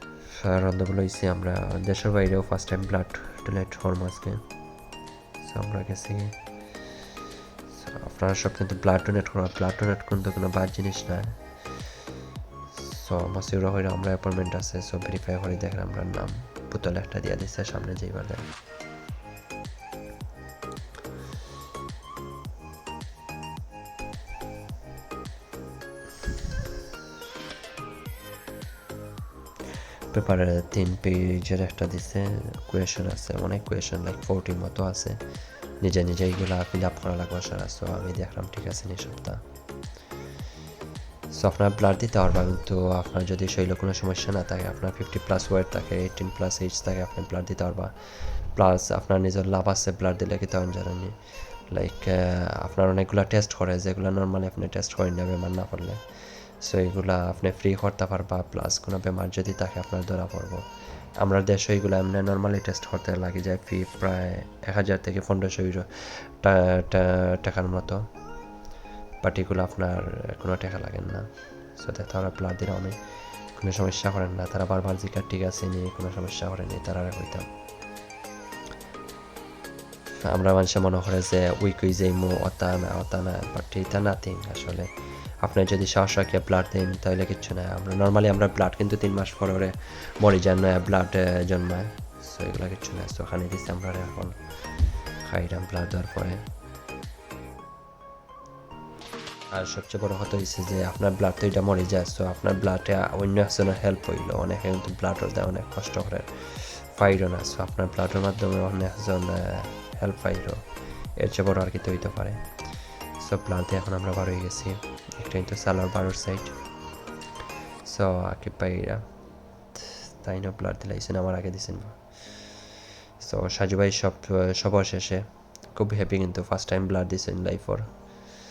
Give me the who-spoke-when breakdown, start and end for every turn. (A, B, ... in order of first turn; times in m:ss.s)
0:00.3-0:04.4 A
0:05.4-0:06.4 A
0:07.7-0:11.4 A
0:12.7-0:18.5 A
0:30.1-0:35.2 A
0:35.8-0:39.4 A
0:41.3-1:08.1 A
1:09.2-1:17.5 A
1:20.2-1:24.9 A
1:25.4-1:36.4 A
1:39.5-1:56.6 A
1:57.8-1:59.1 A
1:59.7-2:07.9 A